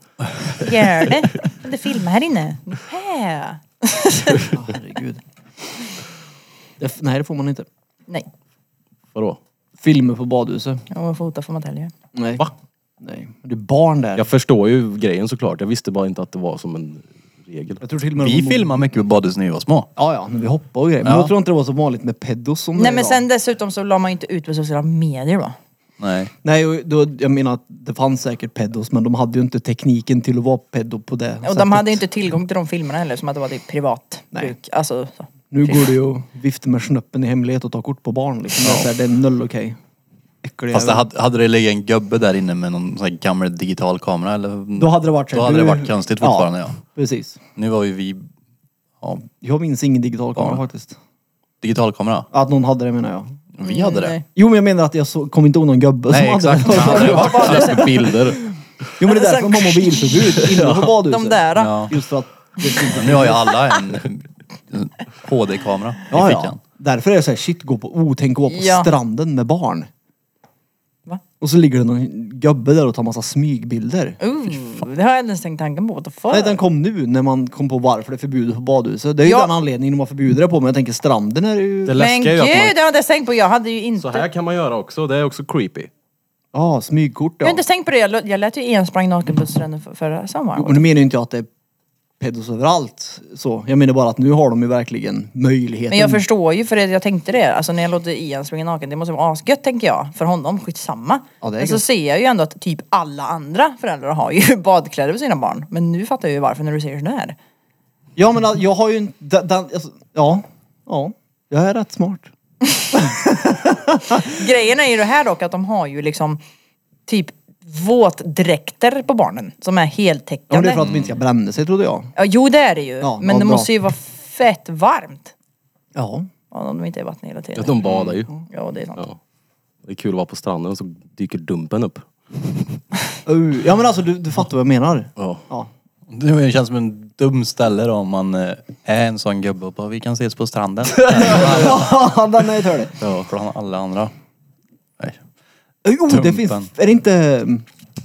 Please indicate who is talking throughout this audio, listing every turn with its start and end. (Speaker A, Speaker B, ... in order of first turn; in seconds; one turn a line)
Speaker A: 0.6-4.5
Speaker B: 4.5-5.2
Speaker B: 6.8-7.7
Speaker C: 9.1-9.4
Speaker B: 9.8-10.8
Speaker A: 10.9-11.9
Speaker B: 12.2-12.5
Speaker B: 13.0-14.3
Speaker C: 14.2-17.8
Speaker B: 17.8-18.7
Speaker D: 18.2-19.9
Speaker B: 20.0-23.2
Speaker D: 21.0-21.3
Speaker A: 22.8-25.6
Speaker D: 26.0-26.3
Speaker B: 26.4-32.0
Speaker A: 31.4-35.9
Speaker B: 35.5-39.8
Speaker D: 38.6-38.9
Speaker B: 40.4-41.1
Speaker D: 40.7-46.8
Speaker B: 44.8-47.4
Speaker D: 47.6-48.3
Speaker D: 49.0-49.3
Speaker B: 49.4-51.0
Speaker D: 50.4-50.6
Speaker D: 51.6-52.3
Speaker B: 52.3-53.4
Speaker D: 53.6-54.2
Speaker A: 53.6-54.2
Speaker B: 54.4-57.8
Speaker D: 56.1-58.2
Speaker A: 56.8-57.9
Speaker C: 56.9-58.5
Speaker B: 59.0-63.6
Speaker A: 59.0-60.5
Speaker C: 60.4-60.9
Speaker A: 61.1-62.0
Speaker D: 61.5-61.9
Speaker D: 62.8-66.6
Speaker B: 66.1-69.9
Speaker A: 68.5-68.9
Speaker B: 71.4-74.2
Speaker A: 74.2-76.6
Speaker B: 76.3-82.0
Speaker A: 79.2-79.5
Speaker C: 81.9-82.8
Speaker A: 82.0-84.3
Speaker C: 84.0-85.9
Speaker B: 86.5-87.6
Speaker A: 87.4-90.8
Speaker B: 90.6-91.5
Speaker B: 92.2-96.2
Speaker A: 95.9-107.4
Speaker B: 101.4-101.8
Speaker B: 108.2-112.3
Speaker B: 112.9-114.2
Speaker A: 114.2-116.4
Speaker A: 117.1-120.8
Speaker B: 120.5-122.1
Speaker D: 120.8-121.1
Speaker A: 122.2-125.3
Speaker B: 123.0-123.7
Speaker B: 126.0-126.3
Speaker A: 126.5-129.0
Speaker C: 127.6-128.3
Speaker C: 129.8-132.1
Speaker B: 133.3-135.7
Speaker C: 135.2-135.4
Speaker D: 136.1-141.9
Speaker C: 141.0-141.5
Speaker B: 141.1-142.9
Speaker C: 143.0-143.3
Speaker D: 143.2-144.1
Speaker B: 145.8-147.7
Speaker D: 146.1-146.7